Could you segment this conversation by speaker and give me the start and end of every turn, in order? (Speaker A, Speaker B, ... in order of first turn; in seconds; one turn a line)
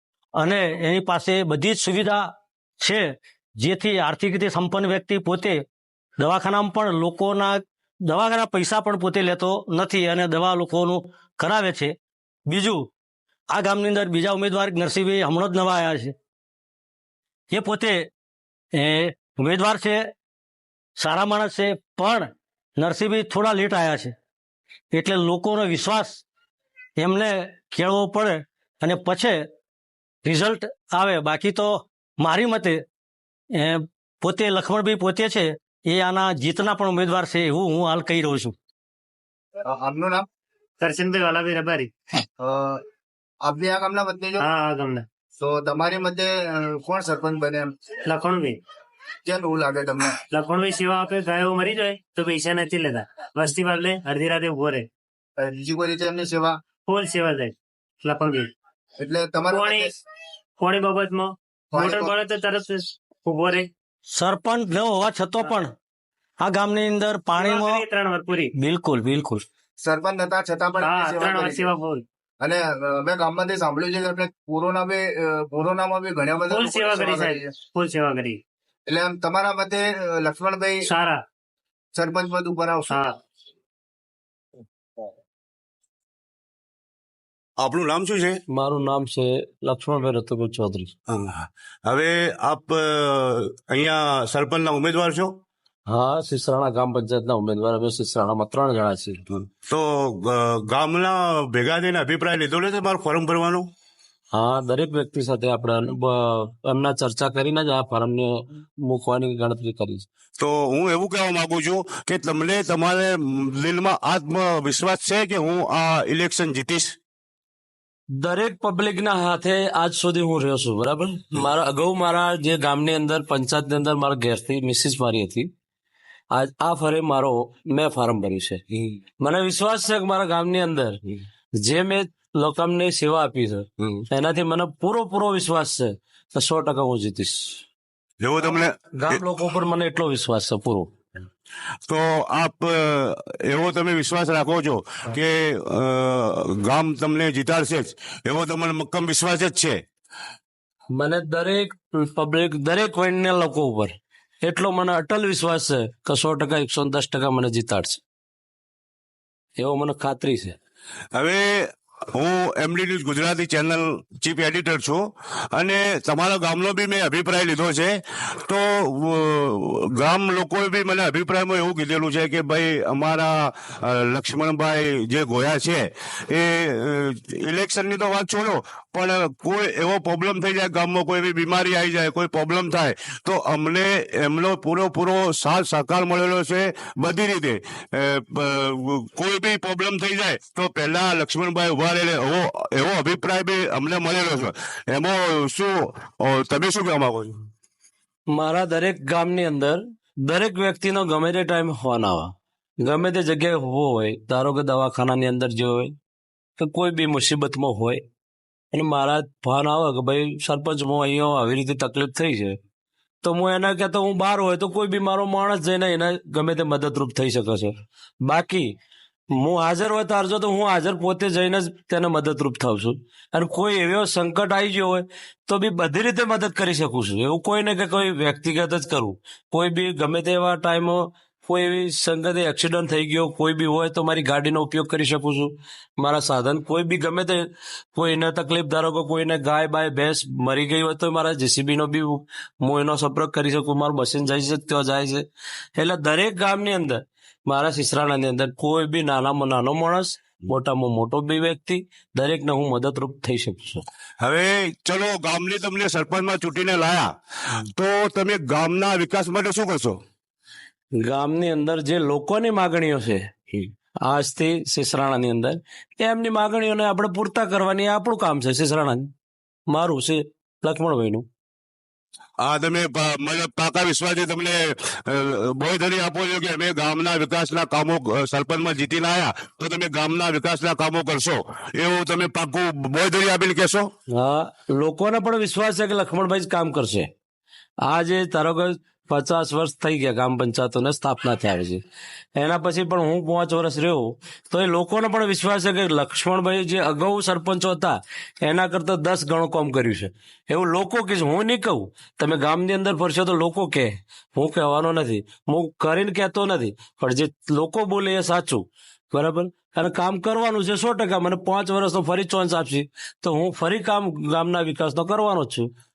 Speaker A: 0.4-2.3
Speaker A: 2.8-5.6
Speaker A: 6.2-11.9
Speaker A: 12.5-12.9
Speaker A: 13.5-16.1
Speaker A: 17.5-18.1
Speaker A: 18.8-20.1
Speaker A: 21.0-22.3
Speaker A: 22.8-24.1
Speaker A: 24.9-26.2
Speaker A: 27.0-29.4
Speaker A: 30.2-32.8
Speaker A: 33.6-38.5
Speaker B: 39.6-40.2
Speaker C: 40.8-41.9
Speaker B: 42.4-42.8
Speaker B: 43.4-44.4
Speaker C: 44.4-45.0
Speaker B: 45.4-47.7
Speaker C: 48.0-48.6
Speaker B: 49.2-50.2
Speaker C: 50.3-54.9
Speaker B: 55.4-56.6
Speaker C: 56.9-58.5
Speaker B: 59.0-59.9
Speaker C: 59.5-59.9
Speaker C: 60.6-63.7
Speaker B: 61.7-62.1
Speaker A: 64.2-65.7
Speaker A: 66.4-67.8
Speaker C: 67.4-68.5
Speaker A: 68.6-69.4
Speaker B: 69.8-71.7
Speaker C: 70.8-72.0
Speaker B: 72.4-77.5
Speaker C: 76.5-78.4
Speaker B: 78.9-80.9
Speaker C: 80.8-81.2
Speaker B: 81.9-83.0
Speaker D: 87.6-88.4
Speaker E: 88.5-90.9
Speaker D: 91.1-95.4
Speaker E: 95.9-99.2
Speaker D: 99.3-103.7
Speaker E: 104.3-110.0
Speaker D: 110.4-117.0
Speaker E: 118.1-125.5
Speaker E: 126.3-128.6
Speaker E: 129.2-131.0
Speaker E: 131.6-137.6
Speaker D: 138.2-139.2
Speaker E: 138.9-140.9
Speaker D: 141.9-149.8
Speaker E: 150.9-158.0
Speaker E: 159.6-160.6
Speaker D: 161.1-165.0
Speaker D: 165.5-167.9
Speaker D: 168.4-197.3
Speaker E: 198.3-205.9
Speaker E: 206.6-208.0
Speaker E: 208.7-212.6
Speaker E: 213.2-218.8
Speaker E: 219.3-237.4
Speaker E: 237.9-253.8
Speaker D: 254.2-260.0
Speaker E: 260.9-269.1
Speaker E: 269.7-271.2
Speaker D: 272.4-283.9
Speaker E: 284.1-287.1
Speaker E: 287.8-291.8
Speaker E: 292.4-315.7